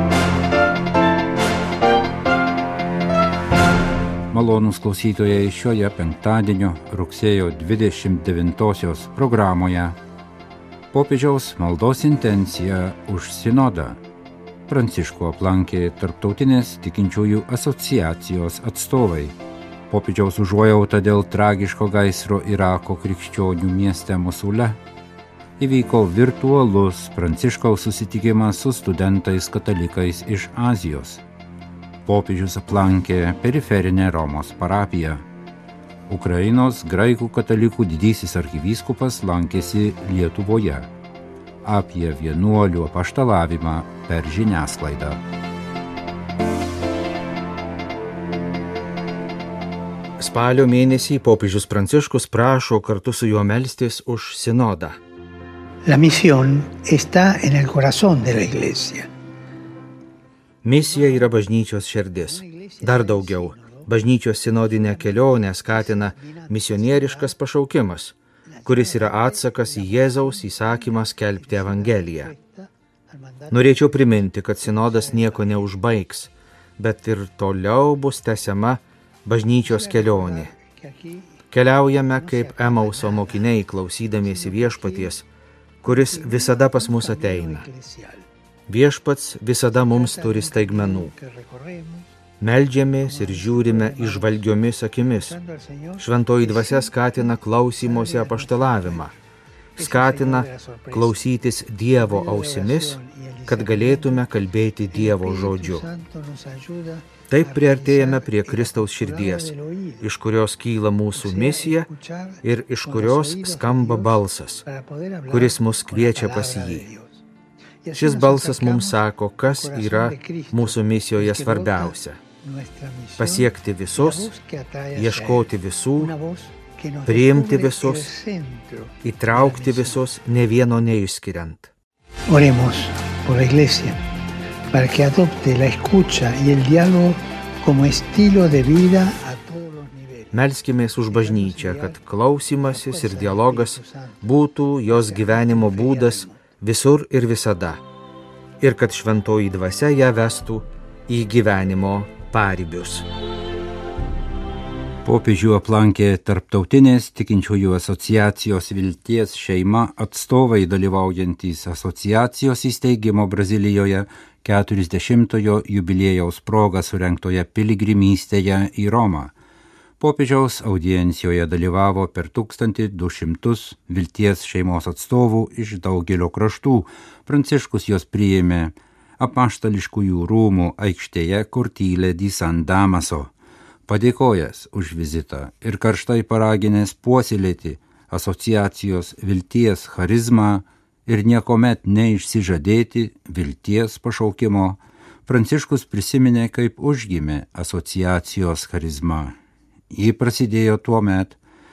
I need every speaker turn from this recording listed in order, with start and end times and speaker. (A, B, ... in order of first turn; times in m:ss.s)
0:04.3-0:10.0 A
0:10.9-0:14.0 A
0:14.7-0:19.4 A
0:19.9-0:24.8 A
0:25.6-0:31.2 A
0:32.1-0:35.2 A
0:36.1-0:40.9 A
0:41.6-0:45.2 A
0:50.2-0:55.0 B
0:55.9-0:59.1 C
1:00.6-1:08.2 B
1:00.8-1:01.5 C
1:02.1-1:07.3 C
1:08.5-1:15.8 C
1:08.7-1:12.3 B
1:13.5-1:20.5 B
1:19.5-1:21.4 C
1:21.5-1:25.3 B
1:21.9-1:23.5 C
1:24.2-1:25.2 C
1:25.8-1:28.2 C
1:25.8-1:27.7 B
1:28.7-1:31.1 B
1:29.7-1:32.1 C
1:32.4-1:35.4 B
1:33.0-1:39.1 C
1:36.0-1:39.1 B
1:39.8-1:45.9 B
1:39.8-1:41.3 C
1:41.9-1:44.3 C
1:44.9-1:50.1 C
1:47.3-1:51.9 B
1:51.1-1:57.2 C
1:52.4-1:54.6 B
1:55.3-1:56.9 B
1:57.8-2:10.0 C
1:58.0-2:02.2 B
2:03.2-2:04.3 B
2:05.0-2:06.1 B
2:07.1-2:08.1 B
2:09.0-2:11.7 B
2:12.3-2:14.0 C
2:14.7-2:20.4 C
2:20.3-2:27.8 B
2:21.0-2:22.0 C
2:22.6-2:24.3 C
2:24.8-2:26.4 C
2:28.6-2:33.1 B
2:35.0-2:49.3 A
2:50.0-3:03.3 A
3:03.9-3:19.4 A
3:19.9-3:21.4 A